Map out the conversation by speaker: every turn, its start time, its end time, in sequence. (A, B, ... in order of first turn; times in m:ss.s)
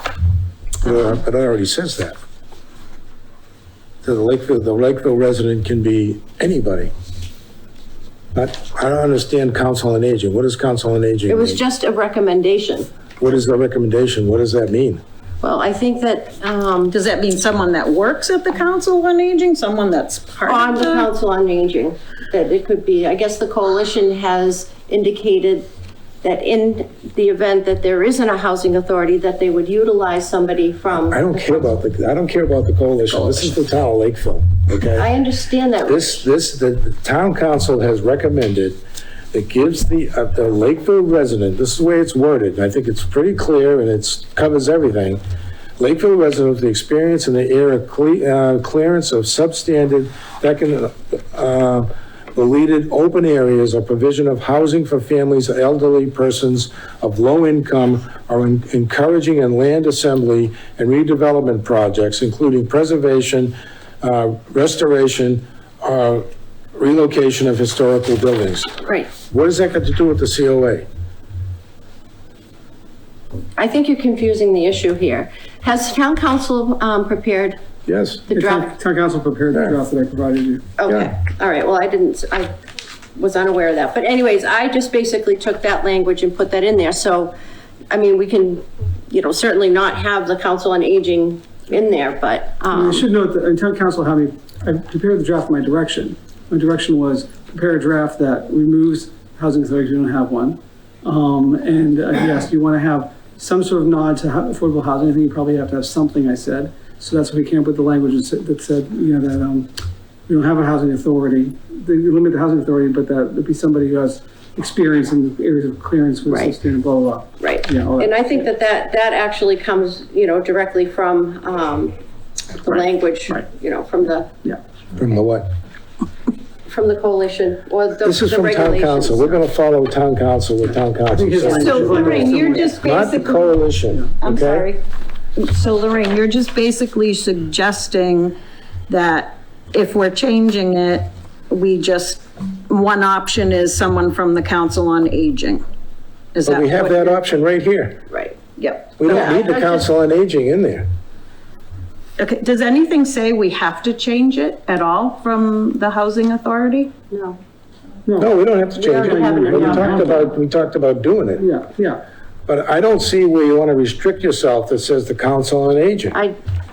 0:00.8-0:02.2 A
0:00.8-0:01.2 B
0:04.0-0:06.9 A
0:08.3-0:11.6 A
0:11.3-0:12.9 B
0:13.2-0:15.0 A
0:15.4-0:17.0 B
0:16.9-0:21.1 C
0:20.4-0:25.7 B
0:26.2-0:31.7 B
0:30.9-0:35.1 A
0:35.0-0:36.2 B
0:35.8-0:38.8 A
0:39.3-0:45.2 A
0:45.8-1:10.9 A
1:08.8-1:09.1 B
1:13.6-1:17.6 B
1:17.9-1:18.2 A
1:18.3-1:18.7 B
1:18.3-1:20.7 D
1:20.8-1:22.5 B
1:20.9-1:21.1 A
1:23.1-1:27.3 B
1:27.9-1:33.1 B
1:32.7-1:49.7 D
1:50.3-1:58.1 D
1:56.3-1:56.6 B
1:57.4-2:01.9 B
2:02.5-2:04.3 B
2:02.7-2:03.4 D
2:05.0-2:05.5 A
2:06.6-2:09.4 B
2:08.0-2:12.3 A
2:11.0-2:12.8 D
2:11.4-2:13.6 C
2:12.8-2:14.7 A
2:14.2-2:14.8 C
2:15.4-2:18.4 C
2:18.9-2:25.6 C
2:26.3-2:27.2 C
2:26.4-2:28.0 A
2:28.1-2:28.3 B
2:28.6-2:29.4 C
2:29.0-2:30.9 A
2:29.1-2:29.8 B
2:32.2-2:36.9 C
2:37.1-2:37.4 B
2:38.0-2:38.3 D
2:38.2-2:41.4 A
2:38.7-2:40.3 B
2:38.9-2:40.2 D
2:41.4-2:42.0 D
2:42.5-2:46.2 A